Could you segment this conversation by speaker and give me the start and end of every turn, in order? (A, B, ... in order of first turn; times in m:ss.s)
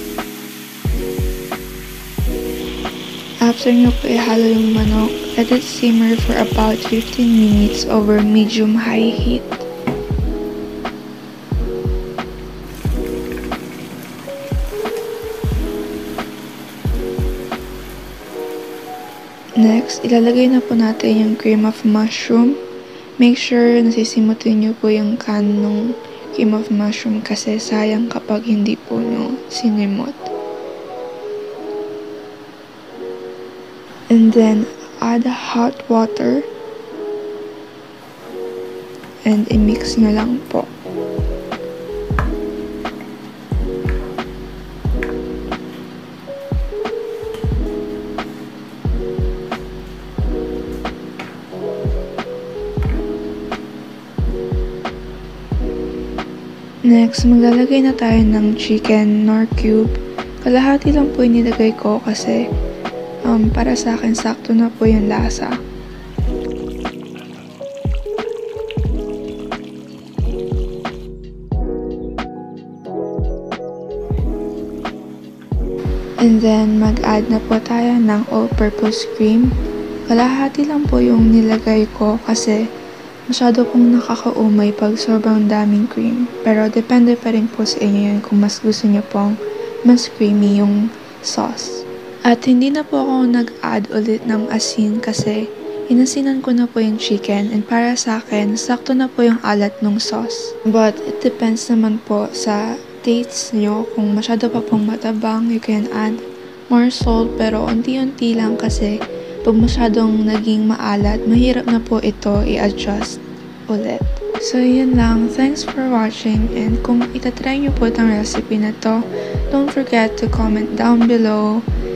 0:03.4-0:09.7 A
0:19.6-0:22.6 A
0:23.2-0:30.3 A
0:34.1-0:36.5 A
0:39.2-0:40.7 A
0:56.8-1:02.5 A
1:03.2-1:05.6 A
1:16.2-1:19.5 A
1:20.0-1:22.6 A
1:23.3-2:01.6 A